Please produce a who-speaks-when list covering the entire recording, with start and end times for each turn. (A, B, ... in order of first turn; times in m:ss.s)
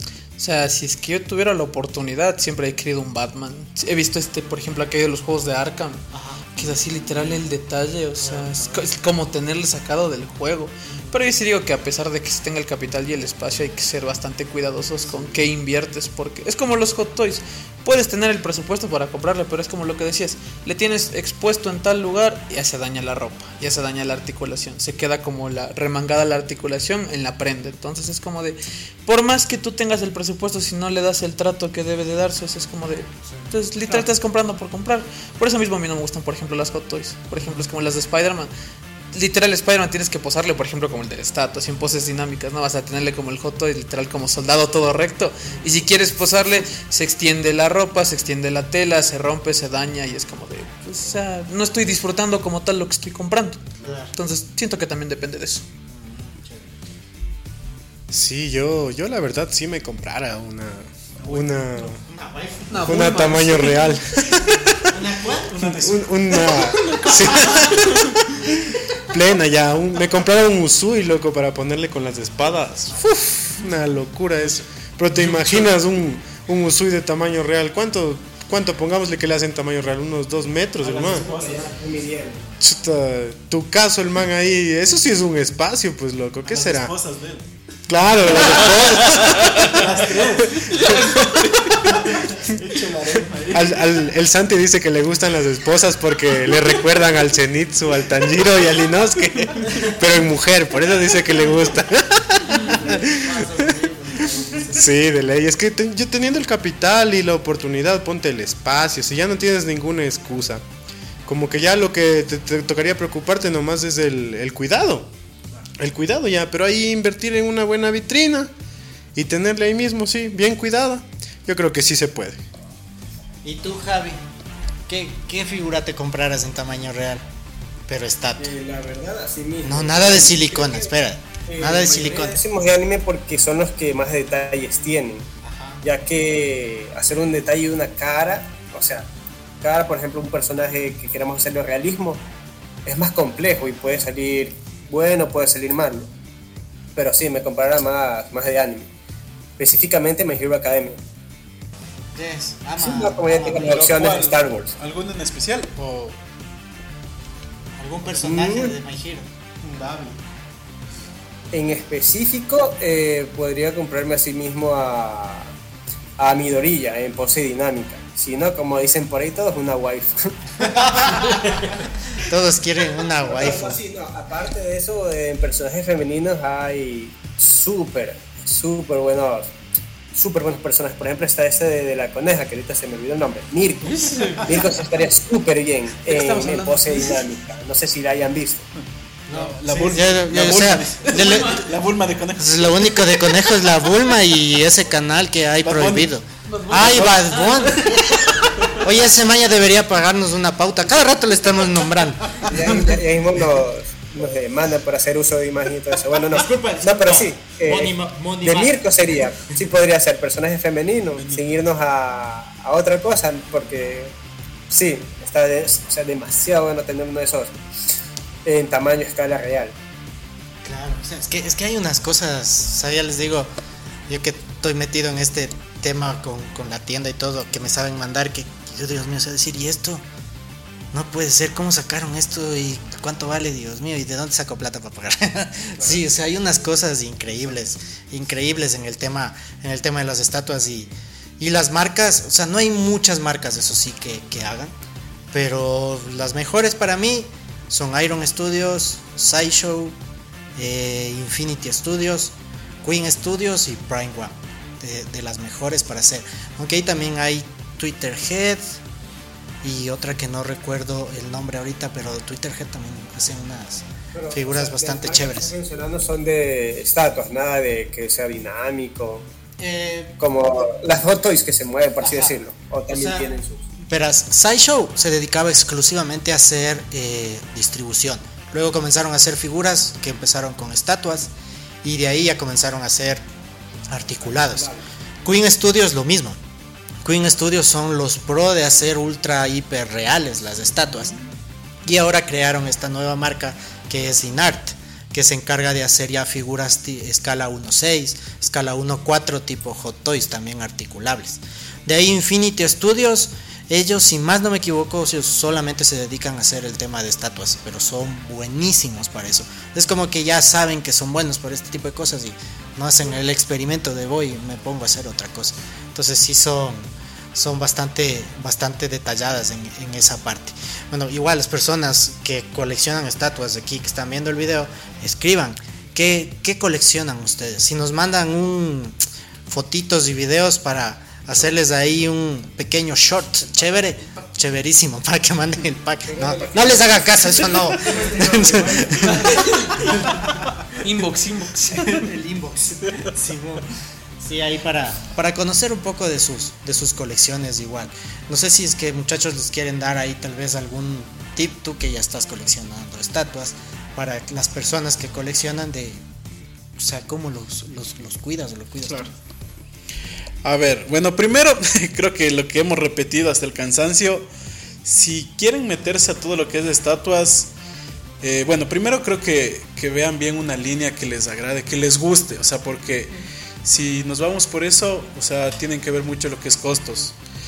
0:00.4-0:38.5 A
0:06.1-0:07.3 B
0:08.2-0:08.8 B
0:33.3-0:34.0 B
0:39.1-0:53.6 A
0:53.8-0:54.1 B
0:54.1-0:55.6 A
0:55.9-0:56.8 B
0:58.1-1:02.0 C
1:01.3-1:03.3 B
1:02.7-1:04.0 A
1:02.8-1:04.9 C
1:04.2-1:05.7 B
1:05.5-1:08.1 D
1:05.6-1:21.3 C
1:06.8-1:07.7 B
1:12.9-1:13.1 B
1:15.1-1:15.7 D
1:20.8-1:21.8 D
1:21.0-1:22.4 E
1:22.6-1:26.9 C
1:26.4-1:27.4 D
1:27.9-1:31.1 C
1:28.2-1:31.2 D
1:30.8-1:31.8 A
1:31.8-1:34.0 D
1:33.5-1:43.5 C
1:42.8-1:44.8 B
1:44.4-1:50.6 C
1:51.2-1:55.1 C
1:55.8-1:58.5 C
1:59.1-2:02.4 C
2:03.4-2:04.2 B
2:04.9-2:07.2 B
2:07.9-2:08.5 B
2:08.4-2:10.9 E
2:09.6-2:12.4 B
2:11.4-2:15.3 E
2:15.4-2:15.8 B
2:15.8-2:19.1 E
2:19.6-2:22.2 E
2:22.8-2:26.1 E
2:26.9-2:28.9 E
2:29.6-2:31.0 E
2:32.1-2:33.9 B
2:32.8-2:34.7 E
2:33.4-2:36.2 D
2:37.8-2:39.2 B
2:38.2-2:38.7 E
2:39.6-2:40.2 D
2:41.5-2:45.5 E
2:46.2-2:50.3 E
2:50.7-2:53.8 B
2:53.2-2:59.5 E
3:00.1-3:08.6 E
3:04.0-3:04.4 D
3:06.1-3:07.2 A
3:09.3-3:11.7 B
3:09.3-3:13.1 D
3:11.2-3:11.6 A
3:12.4-3:22.8 B
3:15.6-3:16.1 D
3:16.5-3:17.9 A
3:16.7-3:17.3 D
3:22.4-3:34.1 E
3:26.3-3:28.8 B
3:31.1-3:31.5 D
3:34.7-3:37.6 E
3:38.4-3:39.7 E
3:40.6-3:43.5 B
3:44.1-3:50.0 B
3:50.9-4:04.7 B
4:05.3-4:10.0 B
4:10.5-4:18.8 B
4:19.6-4:25.5 B
4:24.1-4:29.2 E
4:29.6-4:30.1 B
4:30.2-4:33.7 E
4:32.0-4:32.4 B
4:32.9-4:33.3 B
4:33.9-4:41.3 B
4:41.8-4:43.2 B
4:43.9-4:44.7 B
4:44.3-4:44.8 E
4:45.2-4:46.4 B
4:47.0-4:51.1 B
4:51.8-5:16.8 B
5:17.3-5:39.3 B
5:36.1-5:37.2 E
5:37.8-5:39.2 E
5:39.2-5:40.0 A
5:40.8-5:42.0 A
5:41.8-5:43.7 B
5:44.2-5:56.0 B
5:56.8-5:59.1 B
6:00.4-6:04.3 D
6:04.8-6:07.5 D
6:08.2-6:17.1 D